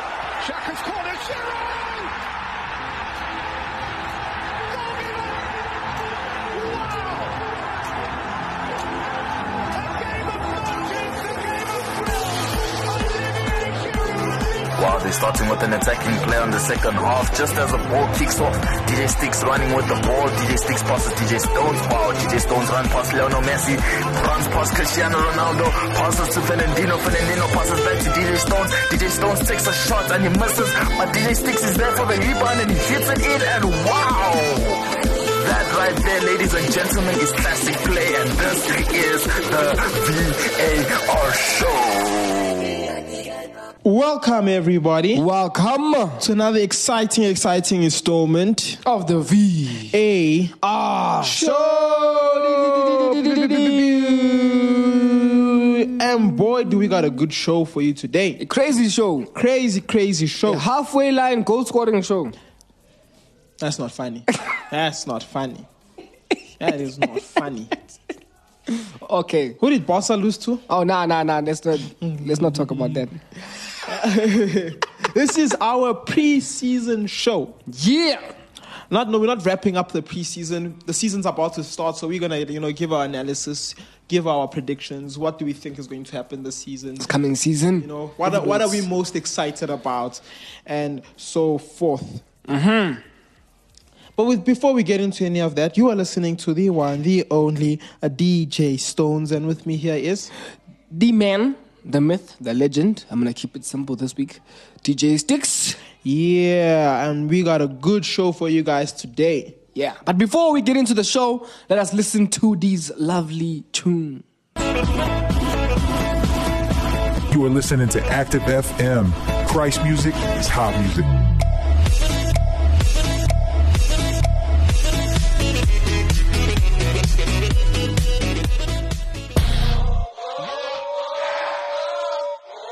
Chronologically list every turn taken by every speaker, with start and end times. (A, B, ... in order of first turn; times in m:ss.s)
0:00.4-0:02.2 A
0:04.7-0:05.5 A
0:06.5-0:07.4 A
0:09.8-0:11.7 A
0:13.0-0:13.8 A
0:14.8-0:42.9 B
0:43.8-0:45.2 C
0:45.1-0:46.2 D
0:46.2-0:48.8 C
0:48.8-0:50.0 D
0:49.9-0:50.6 C
0:50.6-0:54.1 D
0:51.2-0:58.4 C
0:58.4-0:59.3 D
0:59.4-1:00.6 C
1:00.5-1:02.4 D
1:03.6-1:05.7 C
1:06.6-1:07.8 C
1:08.9-1:09.6 D
1:09.6-1:10.6 C
1:10.7-1:13.2 D
1:12.0-1:13.0 C
1:13.8-1:17.6 C
1:17.7-1:18.3 D
1:18.9-1:27.1 C
1:27.0-1:28.9 D
1:27.8-1:32.2 C
1:32.5-1:33.0 D
1:34.2-1:40.3 C
1:40.9-1:45.8 D
1:46.0-1:49.6 C
1:49.8-1:54.2 D
1:57.3-2:01.2 E